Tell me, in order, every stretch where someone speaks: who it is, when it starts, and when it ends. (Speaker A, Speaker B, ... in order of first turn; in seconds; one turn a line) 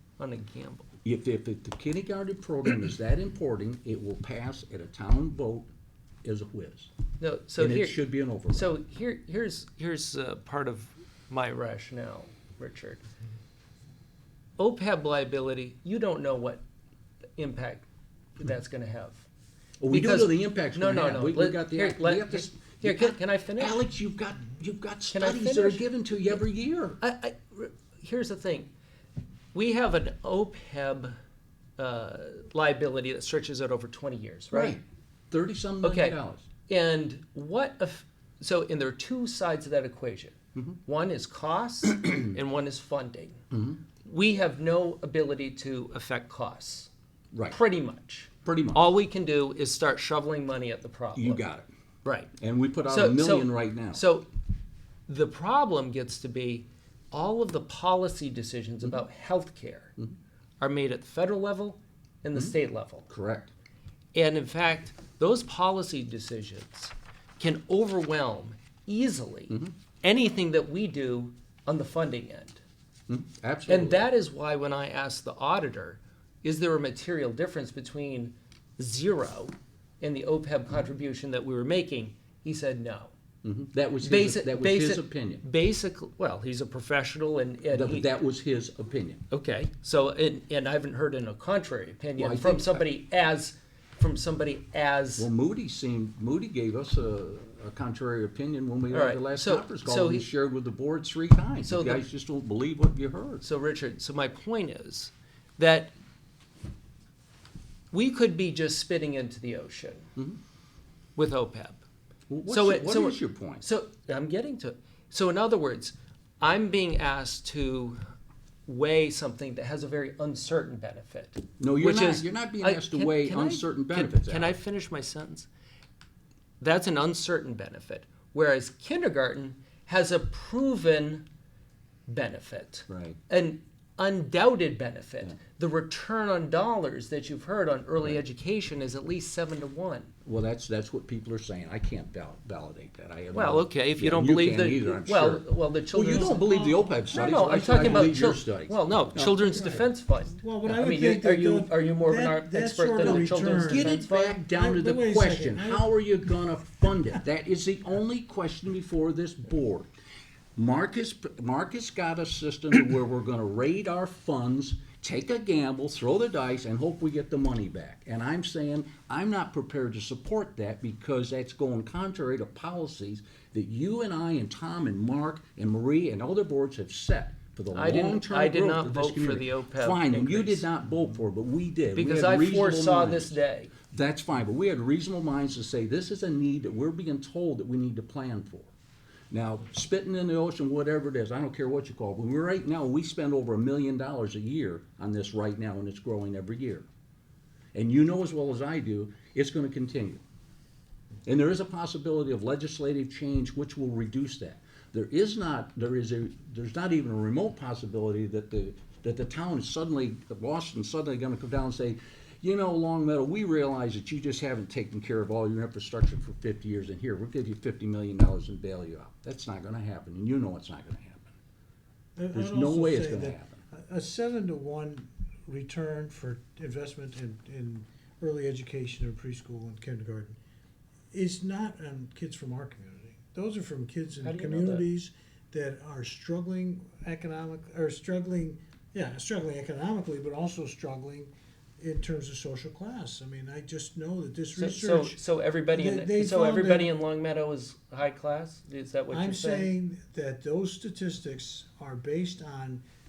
Speaker A: 0.2-0.9
Speaker B: 1.1-5.7
Speaker B: 6.2-6.9
Speaker A: 7.2-13.0
Speaker B: 7.6-8.7
Speaker A: 14.6-16.6
Speaker A: 17.4-17.9
Speaker A: 18.4-19.2
Speaker B: 19.8-27.0
Speaker A: 19.9-23.9
Speaker A: 25.1-25.9
Speaker A: 27.0-28.7
Speaker A: 29.5-31.1
Speaker A: 31.8-34.8
Speaker B: 34.5-36.5
Speaker A: 35.8-43.4
Speaker B: 43.5-43.8
Speaker A: 44.0-46.9
Speaker A: 47.5-51.4
Speaker B: 48.5-48.8
Speaker B: 51.1-51.7
Speaker A: 52.0-52.3
Speaker B: 52.4-54.0
Speaker A: 52.9-54.3
Speaker A: 55.1-60.0
Speaker A: 60.6-63.1
Speaker B: 63.1-63.5
Speaker A: 64.2-72.6
Speaker B: 73.1-74.0
Speaker A: 73.7-83.1
Speaker B: 83.4-85.4
Speaker A: 84.0-88.1
Speaker B: 87.7-89.2
Speaker A: 89.3-95.3
Speaker B: 92.2-92.9
Speaker B: 95.2-103.5
Speaker A: 98.9-100.3
Speaker A: 101.6-102.0
Speaker A: 103.4-105.9
Speaker A: 107.9-110.1
Speaker A: 111.2-111.8
Speaker B: 112.3-113.7
Speaker A: 112.5-118.0
Speaker A: 118.7-125.5
Speaker B: 121.6-124.6
Speaker A: 126.6-131.3
Speaker A: 132.1-140.1
Speaker B: 132.9-133.2
Speaker B: 140.2-149.7
Speaker A: 143.3-146.5
Speaker C: 146.1-148.2
Speaker A: 147.1-154.5
Speaker C: 149.3-155.9
Speaker B: 153.0-159.9
Speaker B: 160.6-183.4
Speaker A: 177.7-180.7
Speaker A: 182.0-183.7
Speaker B: 183.9-188.7
Speaker B: 189.3-196.9
Speaker B: 197.8-200.2
Speaker B: 201.3-221.3
Speaker C: 222.2-230.4
Speaker B: 222.3-223.6
Speaker C: 231.1-246.9
Speaker A: 234.2-234.9
Speaker A: 244.5-249.7
Speaker C: 249.1-252.8